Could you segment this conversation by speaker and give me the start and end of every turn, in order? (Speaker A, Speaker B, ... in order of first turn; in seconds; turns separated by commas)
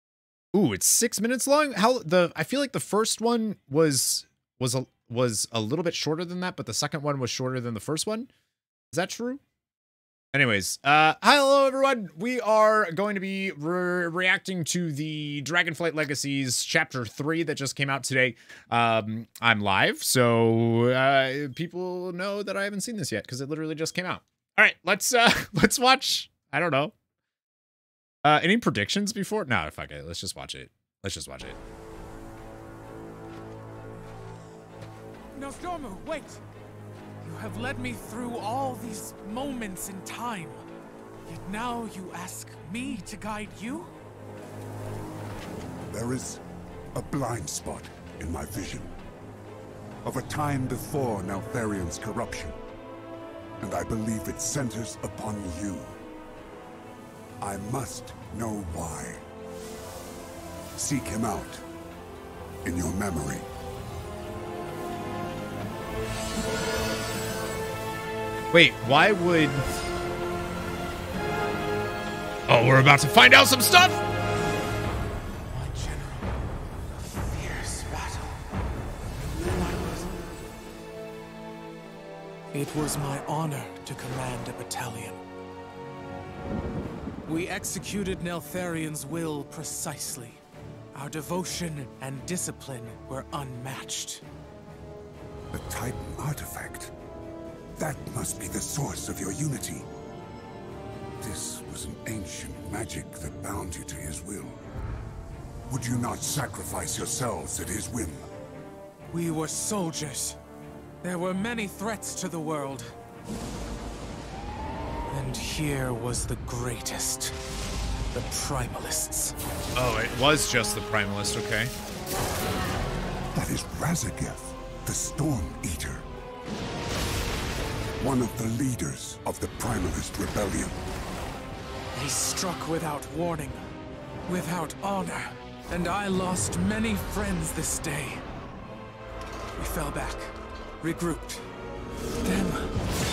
Speaker A: 0.5-8.3, Speaker A: 8.9-9.4, Speaker A: 10.3-26.9, Speaker A: 28.2-31.6, Speaker B: 35.3-36.4, Speaker B: 37.2-40.6, Speaker B: 41.2-43.9, Speaker C: 45.9-46.4, Speaker C: 46.9-48.9, Speaker C: 50.0-52.6, Speaker C: 53.6-56.0, Speaker C: 57.4-59.2, Speaker C: 60.8-61.6, Speaker C: 62.6-63.5, Speaker A: 68.5-69.7, Speaker A: 72.5-74.0, Speaker B: 75.4-76.5, Speaker B: 77.0-78.4, Speaker B: 79.1-80.1, Speaker B: 82.5-85.2, Speaker B: 87.2-90.4, Speaker B: 90.9-94.2, Speaker C: 95.5-96.9, Speaker C: 97.8-99.9, Speaker C: 101.2-104.6, Speaker C: 105.7-108.3, Speaker B: 109.1-110.4, Speaker B: 111.0-112.9, Speaker B: 115.1-117.4, Speaker B: 118.1-119.3, Speaker A: 119.8-121.7, Speaker C: 123.3-126.0, Speaker C: 128.0-130.8, Speaker B: 131.9-133.6, Speaker B: 134.2-138.2, Speaker B: 139.6-141.5, Speaker B: 142.2-142.8